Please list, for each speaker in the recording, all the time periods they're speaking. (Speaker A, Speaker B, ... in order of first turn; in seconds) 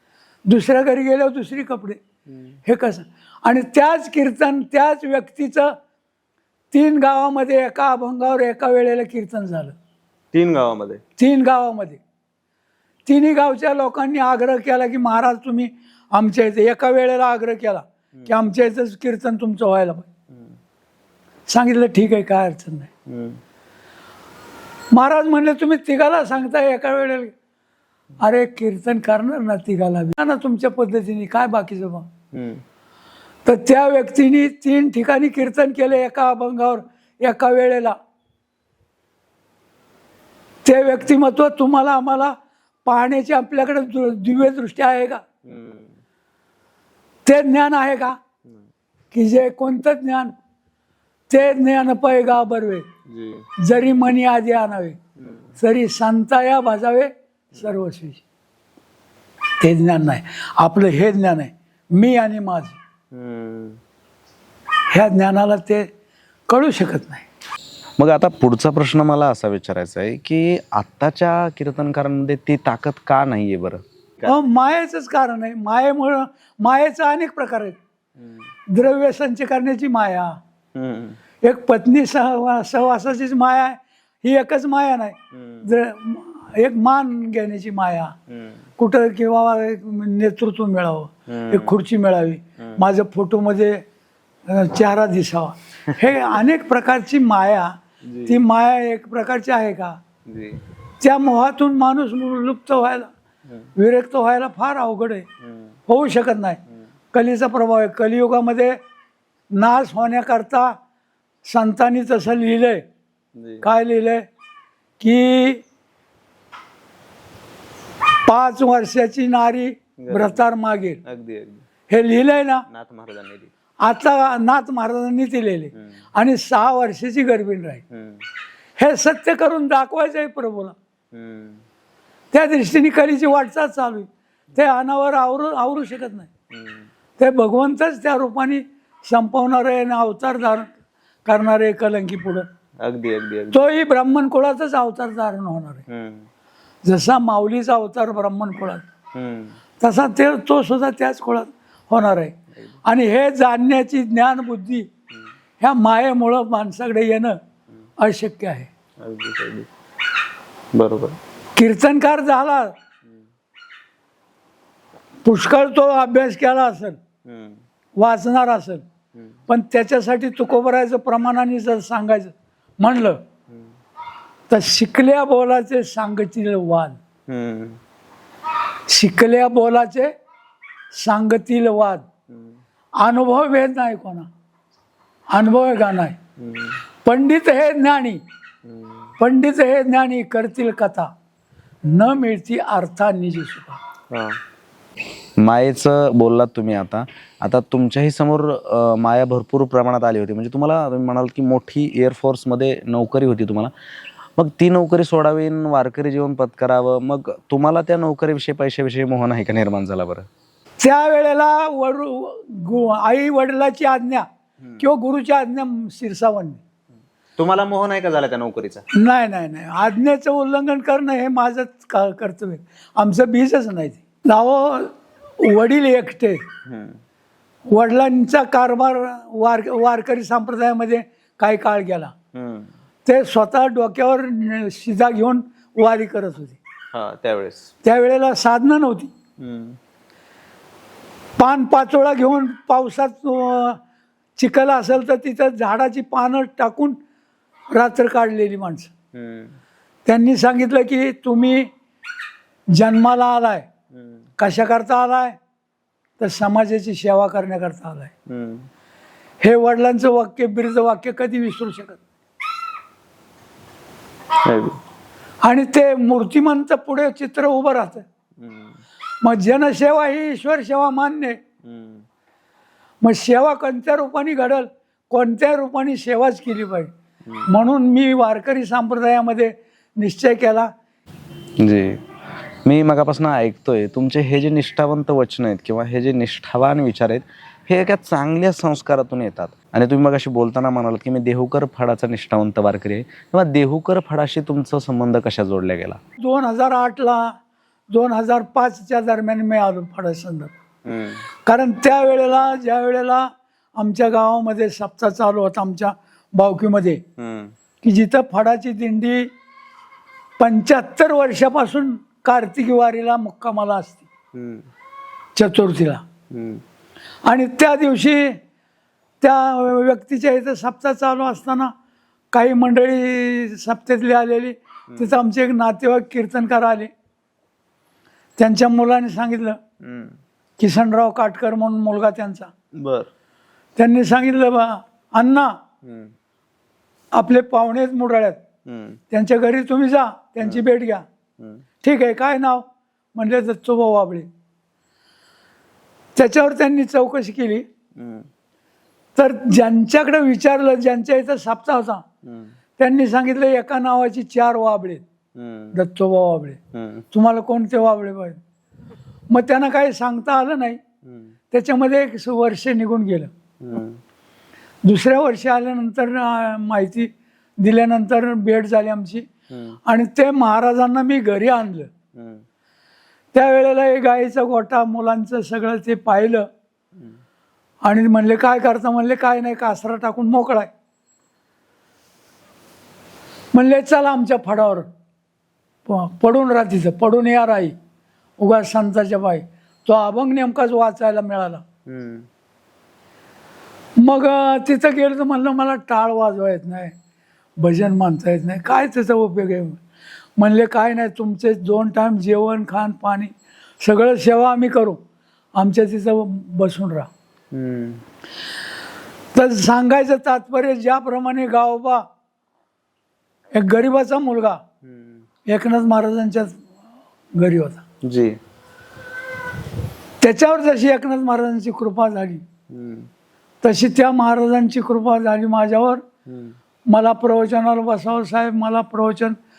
Speaker A: 0.5-2.0, 2.7-5.7, 6.7-9.8, 11.2-12.0, 13.1-20.1, 21.5-22.9, 24.9-27.3, 28.2-32.1, 33.5-38.0, 40.6-45.2, 47.2-48.2, 49.1-50.3, 51.3-52.9, 53.6-55.0, 55.6-58.2, 59.6-62.8, 64.9-65.9, 66.5-67.2, 74.2-77.8, 78.7-80.4, 81.4-88.2, 88.8-93.8, 94.5-97.7, 98.3-100.0, 101.0-103.1, 103.8-105.3, 105.9-106.6, 107.1-108.8, 109.5-110.8, 111.5-112.8, 113.6-114.2, 115.0-115.6, 118.3-121.0, 121.9-122.7, 123.8-127.8, 128.8-130.8, 132.3-136.3, 137.2-140.7, 141.2-142.5, 143.5-145.8, 146.8-148.8, 149.8-154.9, 155.6-157.4, 158.0-158.7, 161.6-162.7, 165.2-167.0, 168.0-168.8, 169.5-173.2, 174.5-177.0, 178.9-180.1, 180.9-182.1, 183.0-184.3, 185.3-186.2, 187.1-188.2, 189.2-191.1, 191.8-193.8, 210.8-214.3, 214.8-216.6, 218.9-226.4, 227.7-232.1, 233.1-236.6, 237.8-239.1, 241.4-243.8, 244.4-247.0, 247.7-248.9, 250.1-251.7, 252.7-253.7, 254.4-255.4, 256.2-258.1, 259.4-262.0, 265.4-268.1, 269.2-271.4, 273.0-276.9, 277.4-280.7, 296.2-297.4, 297.9-300.5, 301.5-307.0, 307.8-309.3, 310.4-314.1, 315.4-316.1, 317.2-318.4, 319.2-321.7, 322.3-326.9, 328.4-329.6, 330.6-332.5, 333.8-335.6, 337.1-338.4, 339.1-341.0, 341.8-344.3, 346.2-347.7, 349.2-352.0, 352.8-355.0, 355.7-356.6, 357.1-358.4, 359.3-360.8, 361.5-363.3, 364.9-367.1, 367.6-369.3, 369.9-371.9, 373.3-376.5, 377.9-380.7, 383.5-384.9, 385.9-387.8, 388.4-391.6, 394.0-396.9, 397.6-399.8, 400.4-405.0, 405.6-407.1, 409.3-412.1, 413.5-414.6, 415.5-416.6, 417.4-417.8, 420.2-422.4, 423.6-426.0, 426.9-429.4
Speaker B: 10.3-11.0, 45.5-45.8, 53.1-53.4, 63.1-63.7, 68.0-74.4, 80.8-81.2, 121.1-121.6, 122.7-123.5, 131.1-131.6, 142.8-143.5, 145.9-146.2, 149.2-149.5, 159.0-159.7, 160.8-161.2, 177.3-177.7, 195.4-203.7, 204.4-210.3, 217.4-218.8, 226.7-226.9, 232.3-232.7, 236.9-237.7, 239.4-239.7, 249.2-249.5, 271.7-272.0, 281.6-282.0, 282.6-296.0, 300.9-301.2, 307.2-307.5, 314.4-314.6, 329.8-330.1, 332.8-333.1, 338.7-339.0, 348.0-348.2, 355.4-355.7, 356.7-357.0, 363.6-363.9, 391.9-392.2, 418.0-418.4, 422.7-423.0